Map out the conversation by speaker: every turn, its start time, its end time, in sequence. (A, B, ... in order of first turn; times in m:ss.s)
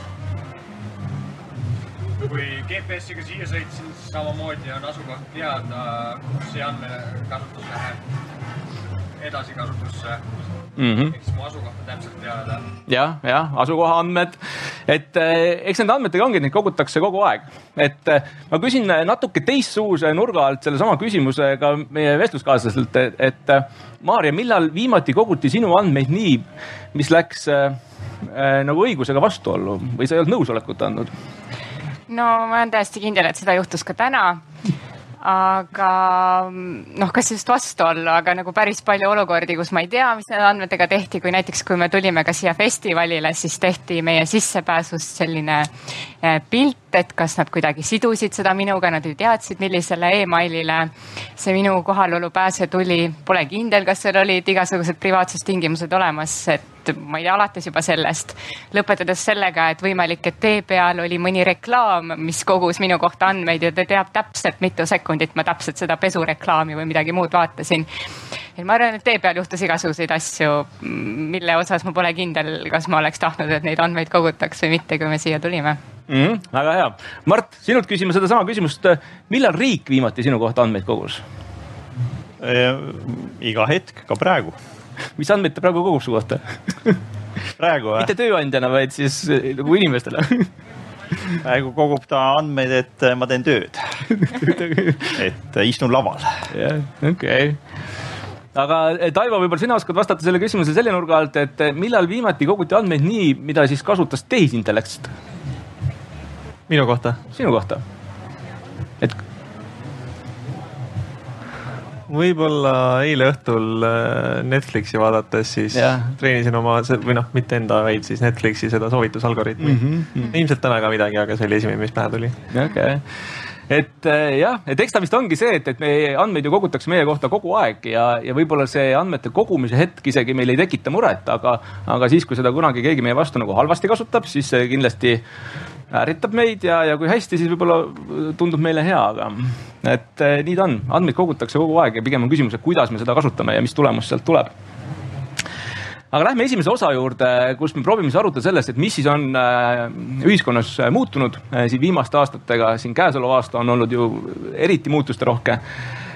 0:02.2-0:08.0 A
0:09.2-0:10.2 A
0:10.8-0:11.1 B
0:11.1-0:12.7 A
0:12.9-0:31.1 B
0:32.1-0:34.4 C
0:35.2-0:45.7 C
0:46.2-1:07.9 C
1:08.6-1:15.8 C
1:16.1-1:21.2 B
1:22.4-1:24.6 D
1:25.2-1:27.0 B
1:27.6-1:28.1 D
1:28.0-1:30.5 B
1:31.4-1:34.4 D
1:34.2-1:35.2 B
1:35.1-1:36.5 D
1:36.5-1:37.6 B
1:38.5-1:45.1 B
1:46.7-1:47.2 E
1:47.3-1:47.8 B
1:52.1-2:02.4 E
1:55.7-1:56.1 B
1:59.6-2:00.4 B
2:02.5-2:03.0 B
2:03.7-2:15.2 B
2:15.9-2:24.5 B
2:26.1-2:35.6 B